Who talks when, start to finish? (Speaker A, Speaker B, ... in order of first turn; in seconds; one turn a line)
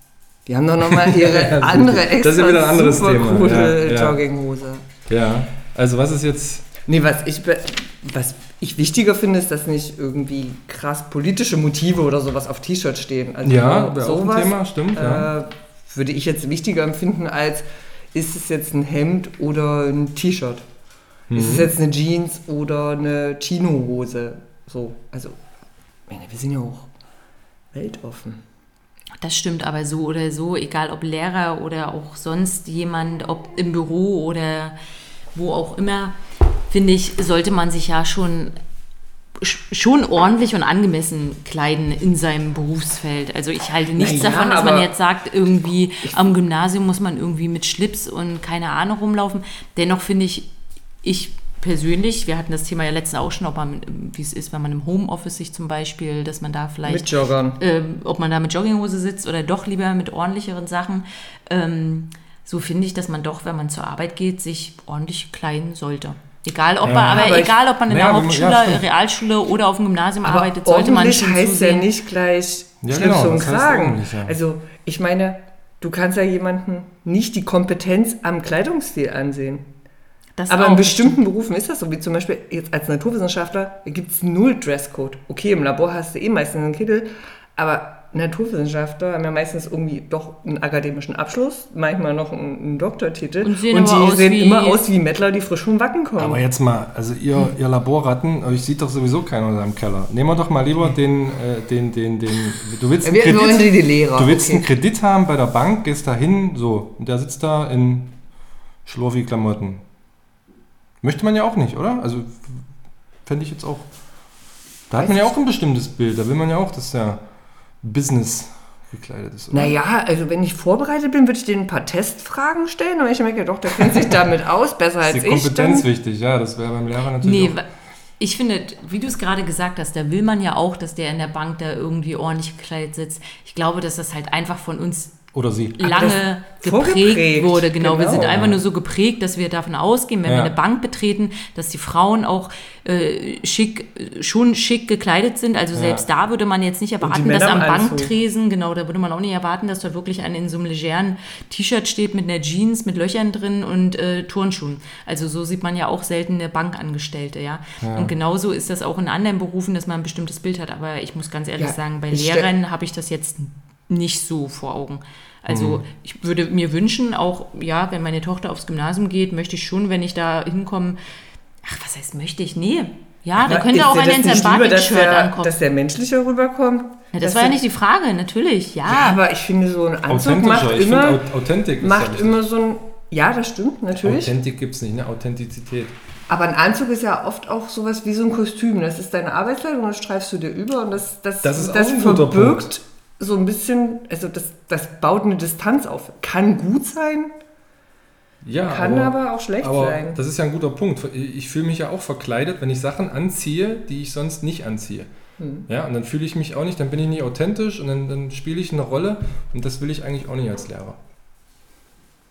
Speaker A: 0.5-4.9
Speaker B: 0.8-4.2
Speaker B: 5.1-6.7
Speaker A: 6.9-20.7
Speaker B: 13.4-15.3
Speaker B: 21.3-21.7
Speaker A: 21.3-25.4
Speaker A: 26.1-26.9
Speaker A: 27.7-28.4
Speaker C: 29.2-34.8
Speaker C: 35.3-36.2
Speaker C: 36.7-38.5
Speaker C: 39.4-50.5
Speaker A: 44.0-44.9
Speaker C: 51.0-71.9
Speaker A: 56.8-57.6
Speaker B: 66.8-68.8
Speaker A: 66.9-67.5
Speaker A: 70.2-79.7
Speaker B: 72.8-74.3
Speaker C: 80.4-81.2
Speaker A: 80.5-96.4
Speaker C: 93.4-94.9
Speaker B: 96.2-108.1
Speaker A: 103.0-104.7
Speaker B: 108.8-109.8
Speaker B: 111.0-112.6
Speaker B: 113.3-113.9
Speaker B: 114.9-117.2
Speaker A: 115.0-115.3
Speaker B: 117.8-119.8
Speaker A: 119.5-125.9
Speaker B: 125.0-127.6
Speaker C: 127.2-127.7
Speaker C: 128.2-135.2
Speaker B: 135.3-136.1
Speaker C: 135.8-171.0
Speaker A: 135.9-138.4
Speaker B: 138.2-138.6
Speaker B: 140.2-140.5
Speaker B: 145.7-146.1
Speaker A: 147.0-148.1
Speaker B: 157.8-158.1
Speaker A: 161.6-162.5
Speaker B: 165.5-165.8
Speaker C: 171.6-175.5
Speaker A: 173.4-177.6
Speaker C: 177.1-179.2
Speaker A: 178.9-181.2
Speaker B: 180.1-182.4
Speaker A: 181.8-184.3
Speaker B: 184.0-185.9
Speaker A: 186.3-197.3
Speaker B: 191.4-192.7
Speaker B: 198.4-205.1
Speaker A: 198.7-200.2
Speaker A: 205.4-205.7
Speaker B: 205.7-211.0